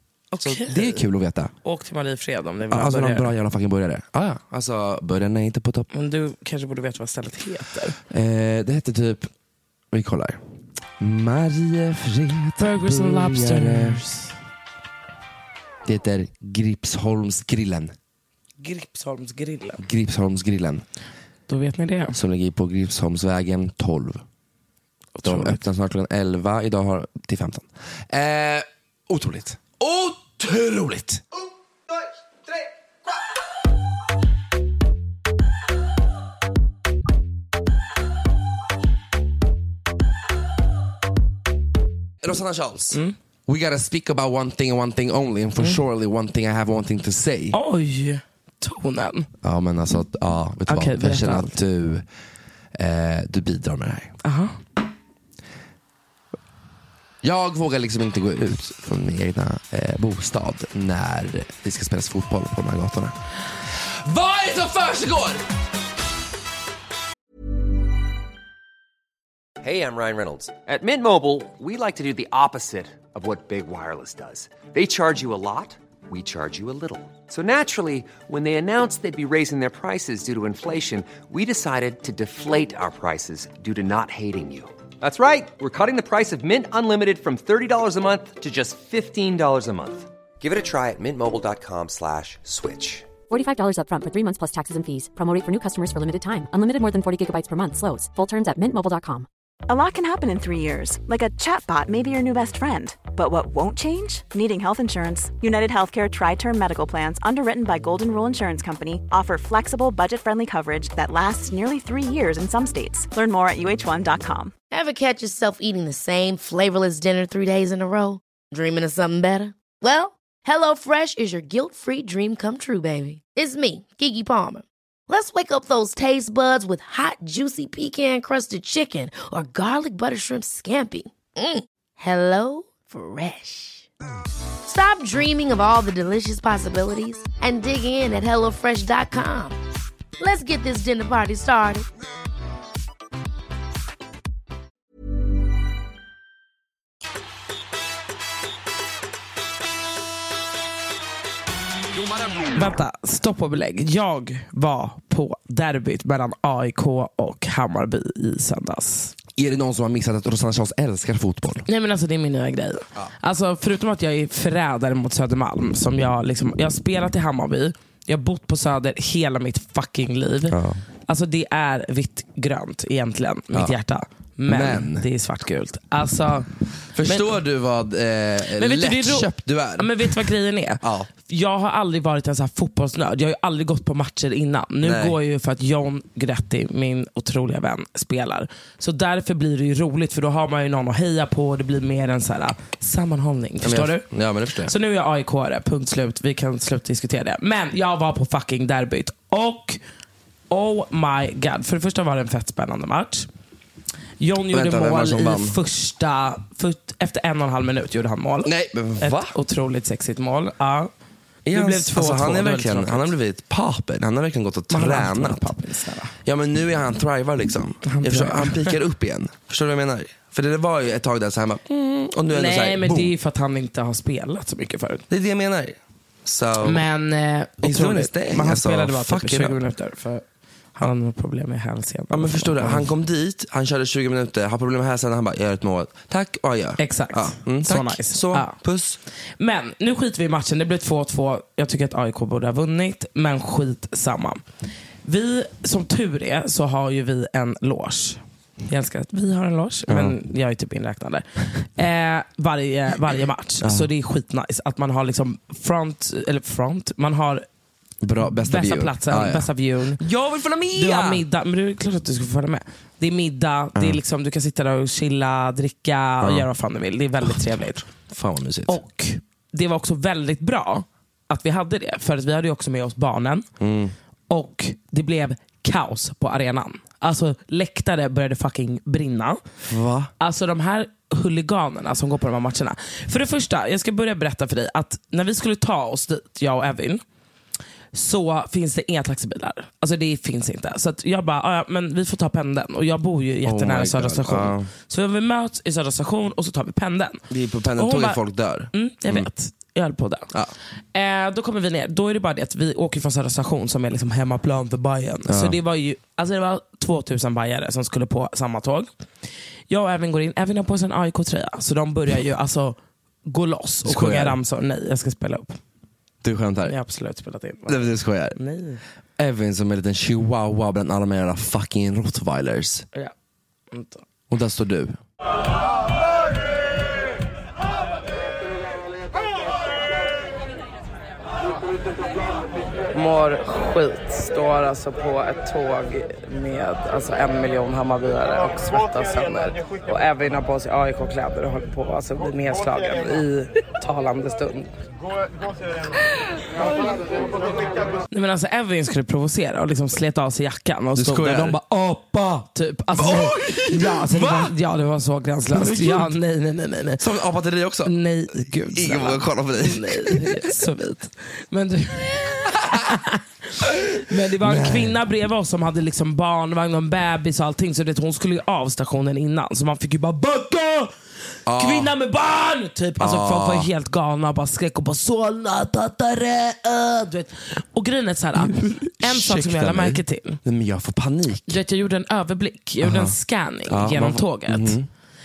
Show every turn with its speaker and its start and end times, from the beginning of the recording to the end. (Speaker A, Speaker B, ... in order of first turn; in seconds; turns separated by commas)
Speaker A: 0.3-1.0, Speaker B: 0.4-1.5, Speaker A: 1.6-3.3, Speaker B: 2.7-5.9, Speaker A: 5.9-8.0, Speaker B: 8.1-9.3, Speaker B: 9.9-10.4, Speaker B: 11.0-14.0, Speaker A: 12.6-14.3, Speaker B: 15.8-17.9, Speaker A: 18.6-19.8, Speaker B: 19.8-20.8, Speaker A: 21.5-22.2, Speaker B: 22.1-24.2, Speaker A: 25.1-25.6, Speaker B: 25.2-31.2, Speaker B: 42.2-47.6, Speaker A: 47.5-49.3, Speaker B: 49.4-52.0, Speaker A: 50.7-51.5, Speaker B: 52.8-54.1, Speaker A: 54.2-54.6, Speaker B: 57.2-63.2, Speaker B: 63.8-65.4, Speaker C: 69.6-93.1, Speaker D: 93.3-99.3, Speaker E: 99.7-114.5, Speaker F: 114.7-133.9, Speaker F: 134.7-139.6, Speaker F: 140.2-141.8, Speaker A: 152.5-159.2, Speaker B: 159.3-161.7, Speaker A: 161.7-176.5, Speaker B: 170.5-170.8, Speaker B: 174.5-175.1, Speaker B: 176.9-180.2, Speaker A: 177.0-177.4, Speaker A: 178.6-194.1, Speaker B: 180.8-181.1, Speaker B: 184.8-185.2, Speaker B: 193.6-194.7, Speaker A: 194.6-199.8, Speaker A: 200.5-203.3, Speaker A: 204.2-210.9, Speaker B: 204.5-205.6, Speaker B: 208.4-209.3, Speaker B: 211.5-215.5, Speaker A: 211.5-213.1, Speaker A: 214.7-216.2, Speaker B: 216.2-223.1, Speaker A: 217.8-218.8, Speaker A: 222.3-225.0, Speaker B: 225.1-226.8, Speaker A: 226.6-230.2, Speaker B: 227.6-229.6, Speaker A: 230.8-232.9, Speaker B: 232.1-239.0, Speaker A: 236.8-238.6, Speaker A: 239.4-244.4, Speaker A: 245.0-257.4, Speaker B: 249.9-250.2, Speaker B: 253.6-253.9, Speaker B: 258.0-261.2, Speaker A: 258.2-260.0, Speaker A: 260.7-267.8, Speaker B: 263.8-264.0, Speaker B: 266.2-266.5, Speaker B: 267.9-268.8, Speaker A: 268.7-273.5, Speaker B: 273.6-273.9, Speaker A: 274.3-279.4, Speaker B: 279.7-280.1, Speaker A: 280.2-287.0, Speaker A: 287.9-297.2, Speaker B: 293.4-294.7, Speaker B: 297.3-299.3, Speaker A: 297.8-298.2, Speaker A: 298.7-300.3, Speaker A: 300.9-308.9, Speaker B: 305.3-305.6, Speaker A: 309.7-315.6, Speaker B: 313.8-314.4, Speaker B: 316.2-316.8, Speaker A: 316.6-318.8, Speaker B: 317.7-318.4, Speaker B: 319.2-322.9, Speaker A: 323.7-324.0, Speaker B: 324.3-325.0, Speaker A: 332.9-344.7, Speaker A: 348.1-357.0, Speaker B: 351.0-351.6, Speaker B: 352.9-354.5, Speaker B: 355.5-356.1, Speaker B: 357.0-357.9, Speaker A: 357.8-363.2, Speaker B: 358.7-360.5, Speaker B: 362.5-362.9, Speaker A: 364.0-370.9, Speaker B: 364.4-365.0, Speaker B: 371.5-371.9, Speaker A: 371.5-380.4, Speaker B: 373.0-373.7, Speaker B: 378.4-381.6, Speaker A: 381.5-384.8, Speaker B: 382.8-383.2, Speaker B: 383.7-384.9